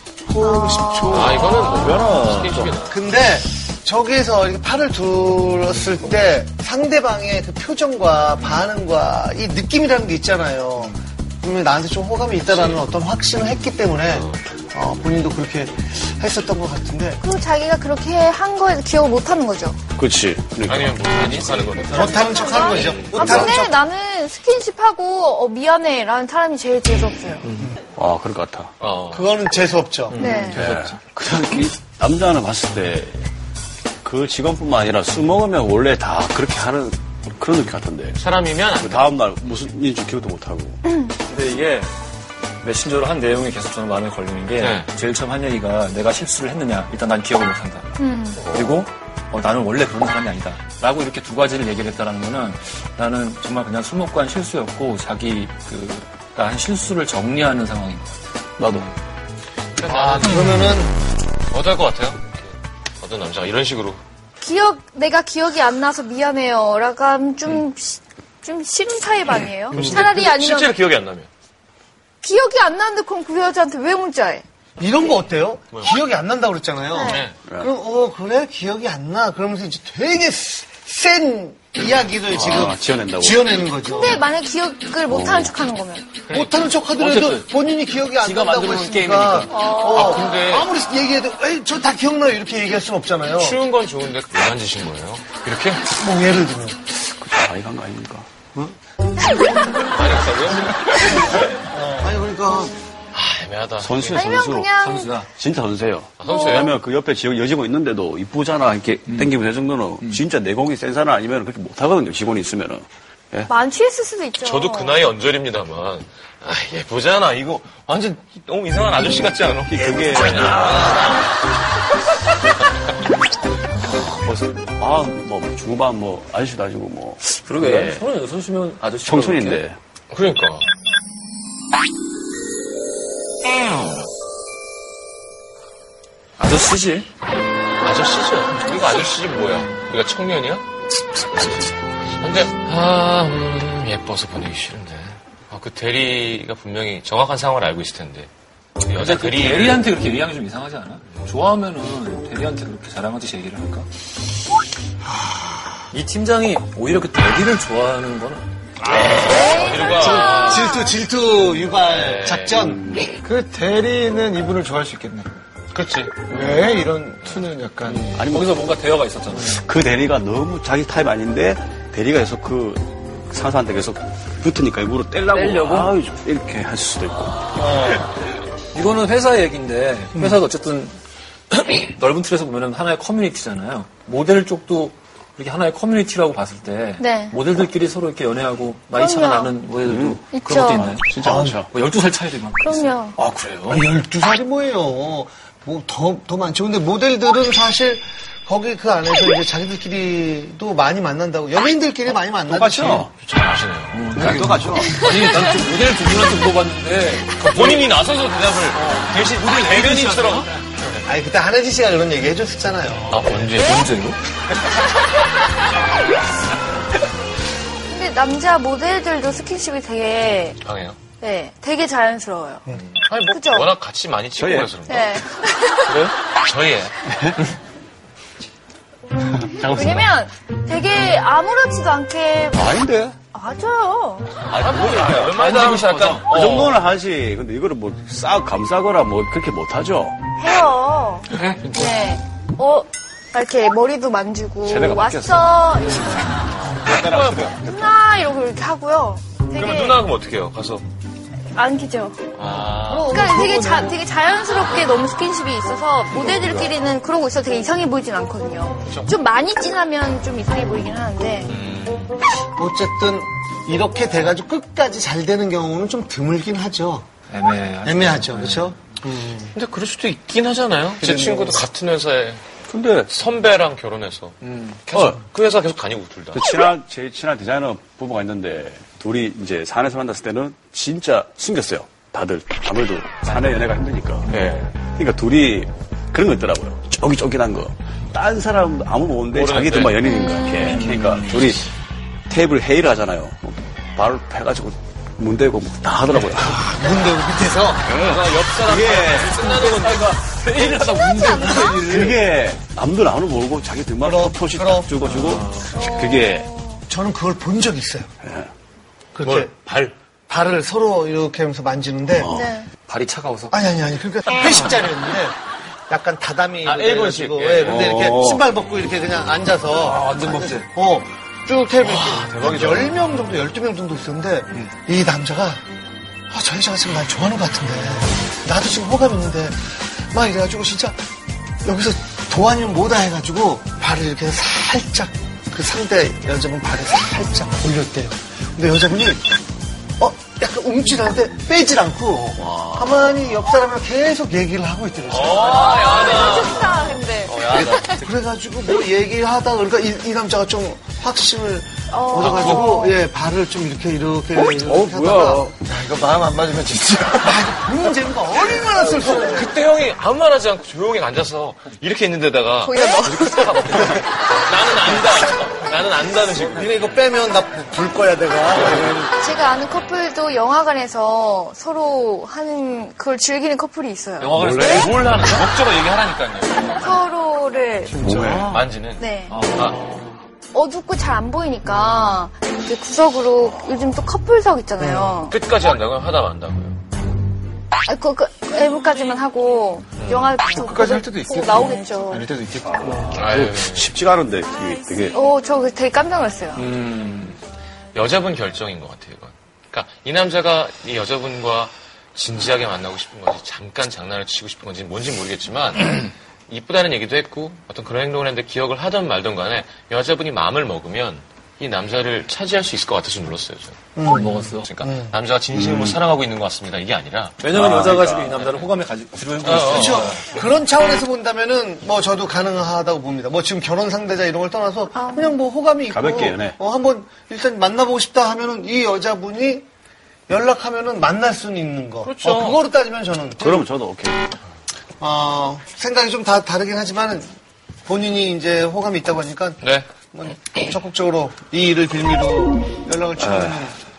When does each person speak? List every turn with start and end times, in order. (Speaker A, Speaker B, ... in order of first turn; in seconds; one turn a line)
Speaker A: 0.3-1.7
Speaker B: 0.4-2.0
Speaker C: 1.1-3.0
Speaker D: 1.9-2.5
Speaker A: 2.9-17.2
Speaker C: 14.1-14.4
Speaker B: 17.2-19.8
Speaker E: 19.9-21.3
Speaker C: 20.6-23.5
Speaker A: 21.9-23.7
Speaker B: 21.9-27.5
Speaker E: 23.2-23.5
Speaker E: 27.9-28.7
Speaker C: 28.8-29.4
Speaker A: 29.1-30.6
Speaker B: 30.2-30.6
Speaker C: 30.2-30.7
Speaker E: 30.5-33.3
Speaker E: 34.0-38.2
Speaker C: 38.1-39.1
Speaker E: 38.8-40.8
Speaker D: 41.2-41.9
Speaker D: 42.6-47.9
Speaker C: 44.6-44.9
Speaker B: 48.0-48.5
Speaker D: 48.4-58.2
Speaker E: 58.6-58.9
Speaker C: 59.8-60.4
Speaker A: 60.0-60.9
Speaker C: 61.5-64.0
Speaker B: 64.4-70.8
Speaker C: 69.7-71.3
Speaker B: 72.2-74.4
Speaker A: 74.8-84.2
Speaker B: 76.9-77.3
Speaker C: 77.0-77.3
Speaker E: 82.3-83.5
Speaker B: 83.8-86.2
Speaker E: 85.1-85.5
Speaker C: 86.2-86.7
Speaker A: 86.3-93.6
Speaker D: 87.0-87.5
Speaker D: 88.1-89.6
Speaker B: 89.5-90.3
Speaker C: 89.8-90.7
Speaker C: 93.3-95.9
Speaker A: 96.0-96.8
Speaker E: 97.0-98.3
Speaker C: 99.9-101.4
Speaker A: 101.7-102.8
Speaker C: 103.1-104.3
Speaker E: 103.8-104.7
Speaker B: 104.1-105.2
Speaker D: 104.8-105.3
Speaker E: 105.3-113.5
Speaker C: 106.2-106.7
Speaker B: 106.2-106.6
Speaker D: 109.1-109.3
Speaker B: 113.5-115.0
Speaker C: 114.4-121.3
Speaker E: 119.7-121.2
Speaker E: 123.8-128.0
Speaker D: 127.3-129.6
Speaker E: 129.0-129.8
Speaker C: 130.1-130.7
Speaker D: 136.4-137.1
Speaker C: 137.8-140.6
Speaker C: 141.2-148.3
Speaker C: 148.8-149.9
Speaker D: 148.9-153.9
Speaker A: 155.2-155.7
Speaker D: 155.9-158.4
Speaker A: 158.8-163.0
Speaker C: 159.2-160.8
Speaker B: 159.3-160.8
Speaker D: 159.8-160.6
Speaker C: 161.6-162.7
Speaker E: 162.7-163.1
Speaker F: 163.1-165.3
Speaker C: 165.7-166.3
Speaker F: 166.3-168.1
Speaker D: 166.3-166.7
Speaker C: 167.2-167.5
Speaker D: 167.8-169.6
Speaker E: 168.1-168.6
Speaker E: 169.4-178.1
Speaker D: 175.3-175.9
Speaker D: 177.6-178.0
Speaker D: 178.7-181.0
Speaker D: 181.5-193.8
Speaker B: 187.0-187.4
Speaker B: 188.9-189.6
Speaker E: 189.9-190.2
Speaker B: 190.3-191.0
Speaker E: 190.9-191.7
Speaker A: 191.2-191.6
Speaker B: 192.6-193.2
Speaker A: 193.7-203.1
Speaker E: 202.5-203.1
Speaker C: 203.2-204.0
Speaker D: 203.9-207.4
Speaker E: 204.2-205.1
Speaker C: 207.3-211.0
Speaker D: 208.7-210.4
Speaker A: 209.8-210.5
Speaker A: 211.0-213.1
Speaker C: 213.1-213.9
Speaker D: 213.6-214.2
Speaker B: 217.9-220.6
Speaker C: 220.6-221.0
Speaker B: 221.2-223.7
Speaker C: 222.9-225.2
Speaker E: 224.4-224.7
Speaker B: 224.9-226.1
Speaker C: 226.2-227.1
Speaker E: 227.1-227.3
Speaker B: 229.6-232.7
Speaker E: 229.6-230.0
Speaker E: 232.5-233.2
Speaker B: 233.3-234.4
Speaker C: 234.4-236.8
Speaker E: 234.7-240.2
Speaker D: 235.5-236.2
Speaker B: 240.4-246.2
Speaker C: 241.3-241.9
Speaker E: 244.6-245.8
Speaker C: 246.5-247.6
Speaker E: 246.7-247.9
Speaker B: 247.6-250.0
Speaker C: 249.5-250.8
Speaker B: 251.5-252.2
Speaker C: 252.3-253.3
Speaker A: 252.8-253.9
Speaker B: 252.9-261.5
Speaker E: 256.1-256.7
Speaker C: 258.8-259.2
Speaker C: 261.4-262.2
Speaker A: 262.6-267.1
Speaker D: 267.3-268.8
Speaker A: 267.8-269.5
Speaker C: 269.5-272.4
Speaker A: 271.0-271.6
Speaker E: 272.7-273.1
Speaker C: 273.1-276.4
Speaker D: 274.4-274.8
Speaker E: 276.3-284.3
Speaker D: 283.2-283.8
Speaker C: 284.3-284.7
Speaker E: 284.8-291.6
Speaker C: 289.3-290.0
Speaker D: 290.6-291.4
Speaker E: 292.3-296.6
Speaker A: 296.4-298.0
Speaker C: 297.9-300.9
Speaker E: 297.9-299.4
Speaker D: 299.3-302.2
Speaker B: 301.1-301.6
Speaker E: 301.7-306.5
Speaker A: 304.0-304.9
Speaker C: 305.1-305.6
Speaker B: 305.7-306.8
Speaker A: 306.9-308.1
Speaker E: 308.2-308.5
Speaker A: 309.1-309.5
Speaker C: 309.2-309.9
Speaker A: 310.3-312.3
Speaker E: 312.2-312.5
Speaker B: 312.3-312.7
Speaker D: 312.7-313.6
Speaker A: 313.5-315.4
Speaker A: 315.9-325.6
Speaker C: 316.6-318.0
Speaker E: 317.6-318.4
Speaker D: 319.8-320.6
Speaker C: 321.8-322.9
Speaker A: 326.3-331.0
Speaker A: 331.6-339.3
Speaker A: 340.0-346.4
Speaker E: 342.4-343.1
Speaker C: 345.1-348.0
Speaker B: 345.6-348.1
Speaker A: 347.4-355.5
Speaker B: 351.9-353.0
Speaker C: 352.1-352.8
Speaker D: 354.7-355.4
Speaker E: 355.1-355.5
Speaker F: 355.6-357.5
Speaker A: 357.2-359.5
Speaker C: 358.4-366.9
Speaker B: 362.6-363.5
Speaker A: 366.4-369.1
Speaker B: 369.1-374.3
Speaker D: 374.2-375.5
Speaker C: 374.4-377.1
Speaker B: 376.7-378.1
Speaker E: 378.0-378.6
Speaker A: 378.2-378.6
Speaker C: 378.5-379.8
Speaker B: 379.0-379.4
Speaker D: 379.3-380.0
Speaker B: 380.5-385.4
Speaker A: 384.8-385.1
Speaker C: 385.3-386.8
Speaker B: 387.9-392.3
Speaker C: 390.0-390.4
Speaker F: 390.6-393.2
Speaker C: 393.1-393.9
Speaker E: 393.1-395.1
Speaker B: 395.1-396.6
Speaker D: 396.6-397.4
Speaker C: 397.9-413.8
Speaker A: 414.0-416.0
Speaker D: 414.0-414.7
Speaker C: 414.6-418.7
Speaker D: 417.4-420.4
Speaker C: 419.4-420.2
Speaker A: 419.7-429.6
Speaker B: 424.9-425.4
Speaker E: 425.9-426.6
Speaker A: 430.3-433.6
Speaker C: 432.0-432.6
Speaker E: 433.4-434.3
Speaker A: 435.0-437.3
Speaker A: 437.9-443.8
Speaker C: 439.6-439.9
Speaker E: 443.2-443.6